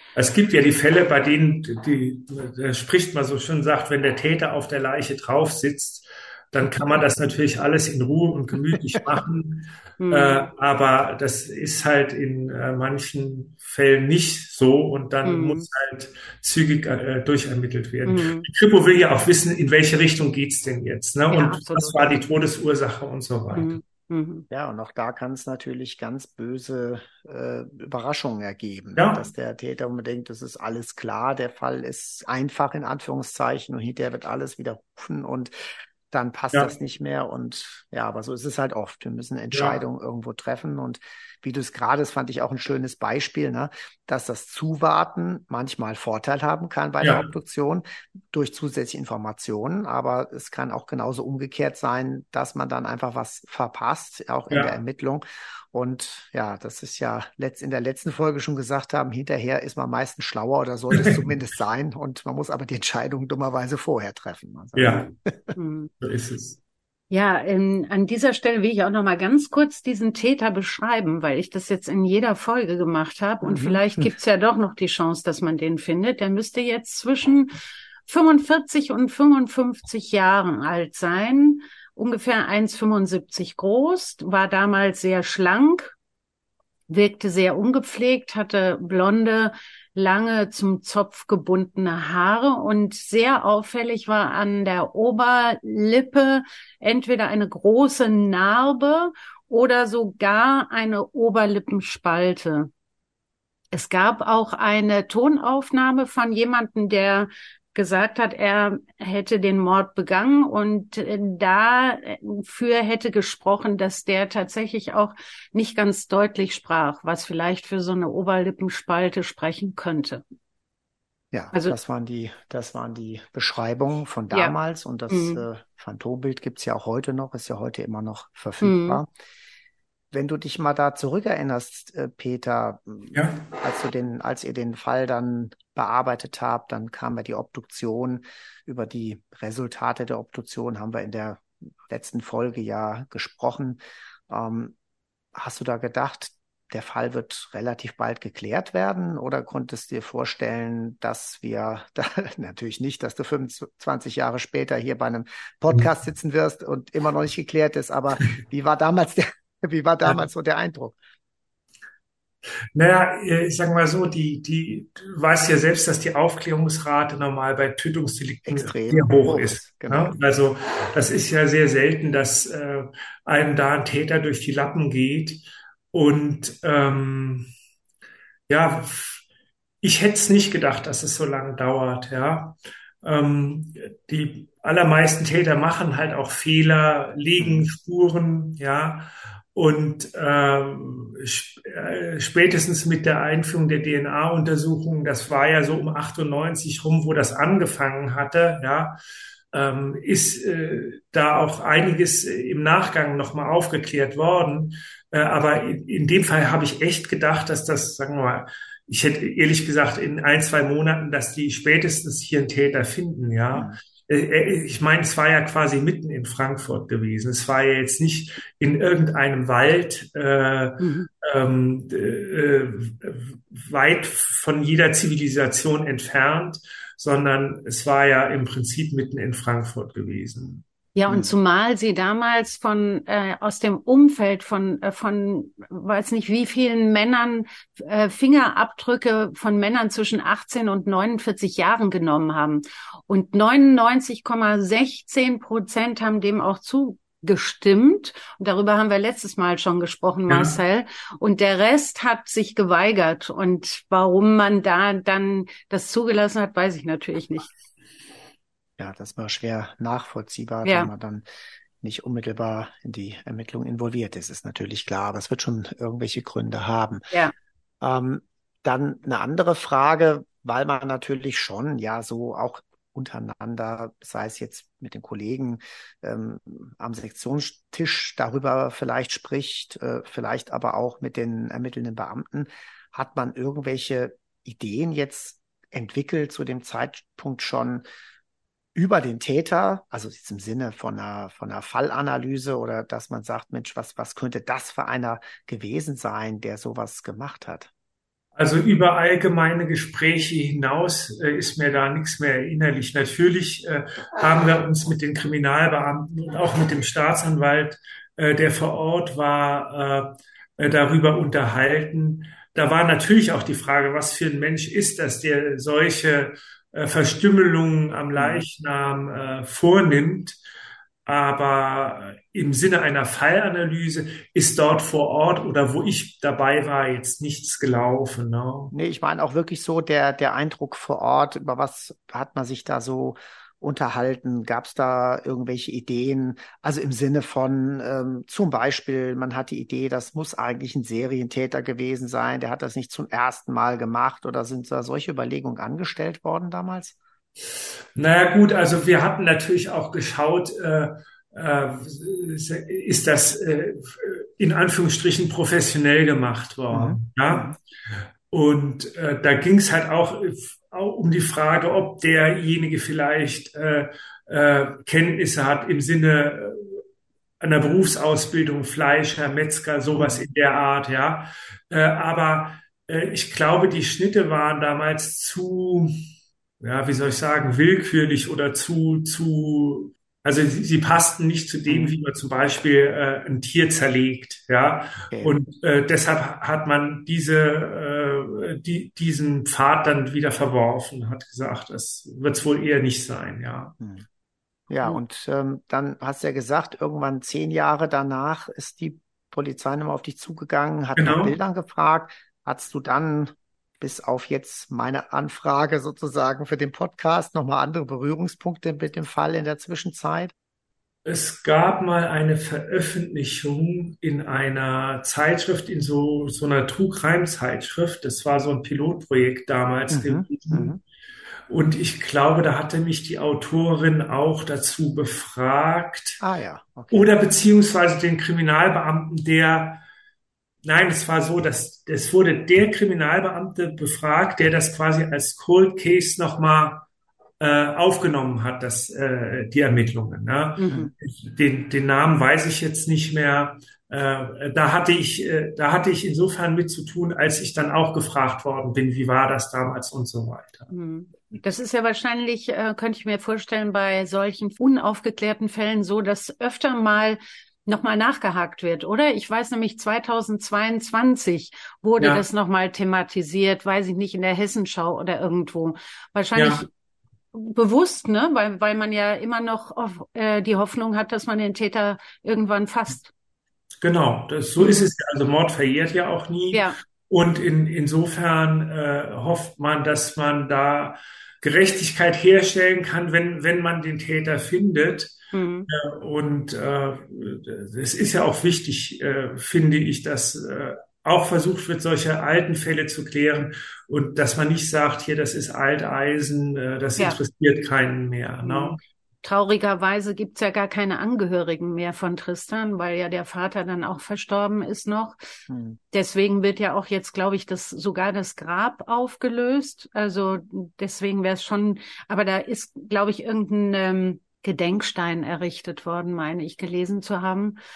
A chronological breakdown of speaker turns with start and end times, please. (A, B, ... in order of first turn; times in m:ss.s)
0:00.2-0:23.8 A
0:10.0-0:10.5 B
0:15.2-0:15.7 B
0:18.0-0:18.5 B
0:21.3-0:22.2 B
0:23.5-0:24.4 B
0:24.5-0:35.5 C
0:29.0-0:29.2 A
0:36.1-1:05.6 C
0:39.5-0:39.8 A
0:47.0-0:47.3 A
1:00.9-1:01.2 A
1:04.8-1:05.1 A
1:05.6-1:05.9 B
1:06.0-1:06.6 A
1:07.1-1:17.5 B
1:13.4-1:13.8 C
1:18.1-1:26.0 B
1:26.9-1:42.7 B
1:43.7-2:00.2 B
2:01.3-2:09.1 C
2:05.1-2:05.4 B
2:08.6-2:09.0 B
2:10.1-2:24.8 C
2:13.1-2:13.4 A
2:25.3-2:41.0 C
2:42.8-2:55.4 A
2:48.5-2:50.2 C
2:55.9-2:57.5 A
2:58.5-2:59.2 A
2:59.8-3:19.0 A
3:07.4-3:07.7 C
3:19.5-3:50.6 A
3:40.8-3:41.1 B
3:51.0-4:17.5 B
4:10.3-4:10.6 A
4:18.8-4:21.2 C
4:20.6-4:20.9 B
4:21.8-4:27.0 C
4:27.8-4:47.8 C
4:48.8-4:57.7 C
4:58.4-5:20.4 A
5:18.2-5:18.5 C
5:21.1-5:28.7 A
5:28.7-5:47.0 C
5:48.0-5:57.5 A
5:56.7-5:57.6 C
5:58.3-6:06.8 A
6:07.4-6:15.9 A
6:09.9-6:10.2 C
6:16.6-6:33.8 A
6:21.7-6:22.0 C
6:25.1-6:25.4 C
6:34.7-6:50.3 C
6:41.0-6:41.3 A
6:51.0-7:00.8 A
6:59.9-7:00.8 C
7:01.5-7:06.2 A
7:06.2-7:07.1 C
7:06.9-7:09.8 A
7:10.6-7:16.9 A
7:17.4-7:30.7 A
7:20.6-7:20.9 B
7:30.7-7:46.7 B
7:42.0-7:42.3 A
7:46.4-7:46.6 A
7:47.3-7:53.1 B
7:53.8-8:05.2 A
7:54.6-7:54.9 B
7:56.5-7:56.8 B
8:05.3-8:05.7 B
8:05.7-8:18.8 A
8:18.5-8:25.2 B
8:25.5-8:25.8 C
8:25.9-8:37.6 B